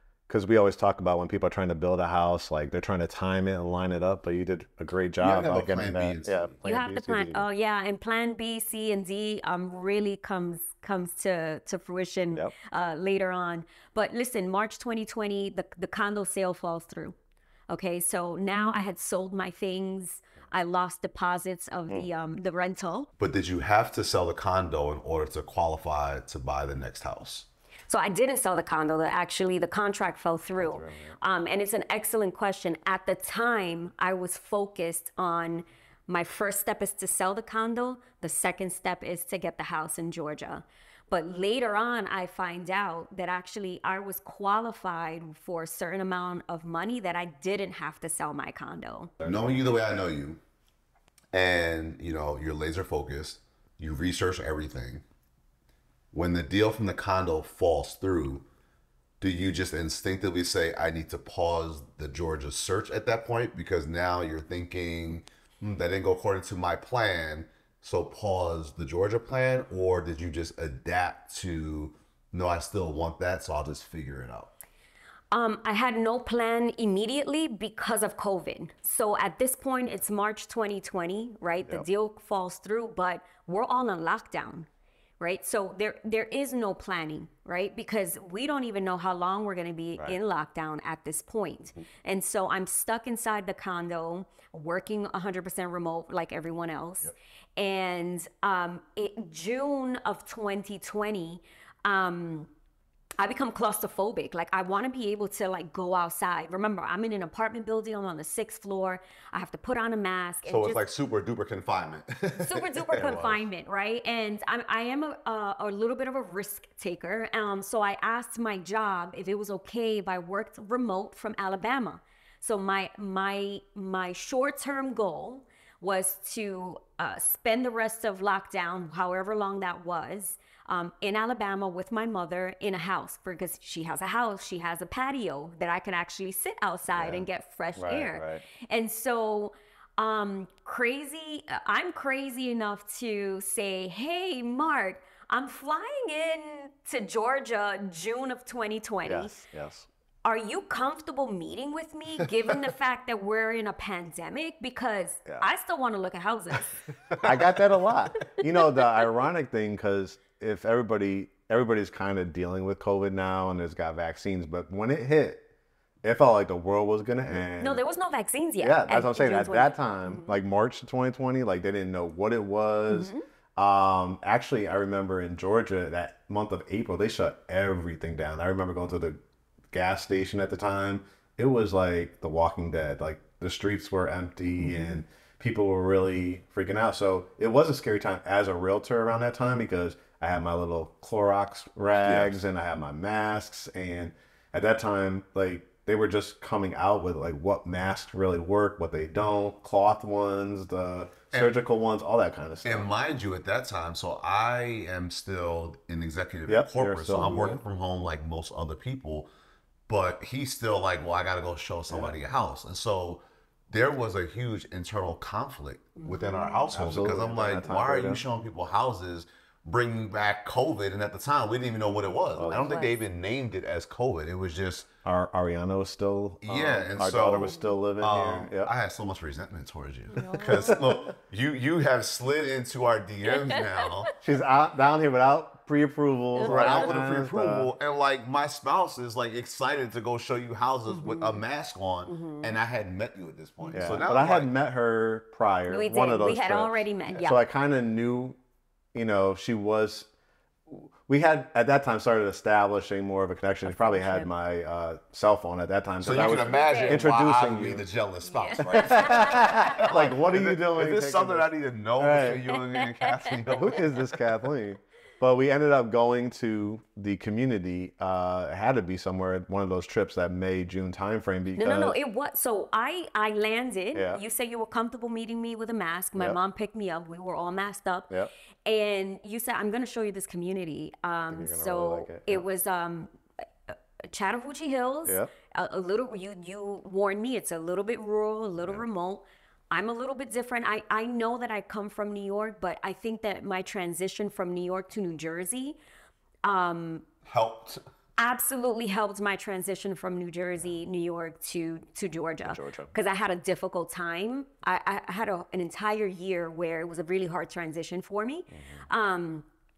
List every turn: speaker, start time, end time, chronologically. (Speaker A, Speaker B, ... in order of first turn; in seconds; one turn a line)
Speaker A: 0.3-7.5
Speaker B: 5.2-6.6
Speaker C: 6.7-17.2
Speaker C: 17.7-23.1
Speaker B: 23.2-27.5
Speaker C: 27.9-49.1
Speaker A: 30.6-31.2
Speaker A: 49.2-49.6
Speaker B: 49.2-50.4
Speaker B: 51.3-55.0
Speaker B: 56.1-58.5
Speaker B: 59.2-74.5
Speaker C: 75.3-84.7
Speaker C: 85.2-102.5
Speaker C: 103.2-110.8
Speaker B: 110.5-113.3
Speaker C: 112.4-149.4
Speaker B: 136.9-137.2
Speaker A: 137.8-138.4
Speaker A: 149.1-149.9
Speaker C: 150.2-156.9
Speaker B: 157.1-157.6
Speaker A: 157.2-165.4
Speaker A: 166.0-167.8
Speaker C: 167.6-170.4
Speaker A: 168.6-179.2
Speaker C: 172.9-173.2
Speaker A: 179.7-202.9
Speaker B: 192.0-192.4
Speaker B: 201.3-201.6
Speaker B: 202.6-209.3
Speaker A: 206.5-207.6
Speaker B: 209.9-224.9
Speaker A: 211.9-212.2
Speaker C: 216.0-216.6
Speaker A: 216.7-218.2
Speaker A: 222.4-222.7
Speaker C: 222.4-223.0
Speaker A: 225.1-228.7
Speaker B: 226.4-234.1
Speaker C: 230.1-230.8
Speaker A: 230.5-230.8
Speaker A: 234.2-237.7
Speaker C: 236.4-236.7
Speaker B: 236.4-244.5
Speaker C: 240.9-241.4
Speaker C: 242.1-242.5
Speaker C: 243.6-244.0
Speaker A: 243.7-248.4
Speaker C: 245.7-247.4
Speaker A: 248.9-250.1
Speaker A: 250.7-257.9
Speaker C: 253.7-254.3
Speaker B: 256.0-264.2
Speaker C: 256.2-257.0
Speaker C: 258.3-259.8
Speaker A: 258.7-262.5
Speaker C: 262.8-263.3
Speaker A: 263.6-272.0
Speaker C: 271.6-278.1
Speaker A: 273.9-274.2
Speaker C: 278.7-283.1
Speaker A: 281.3-282.4
Speaker C: 283.7-295.8
Speaker A: 288.6-288.9
Speaker C: 296.4-297.1
Speaker B: 297.3-297.8
Speaker C: 298.2-309.5
Speaker A: 302.5-302.9
Speaker A: 308.5-308.9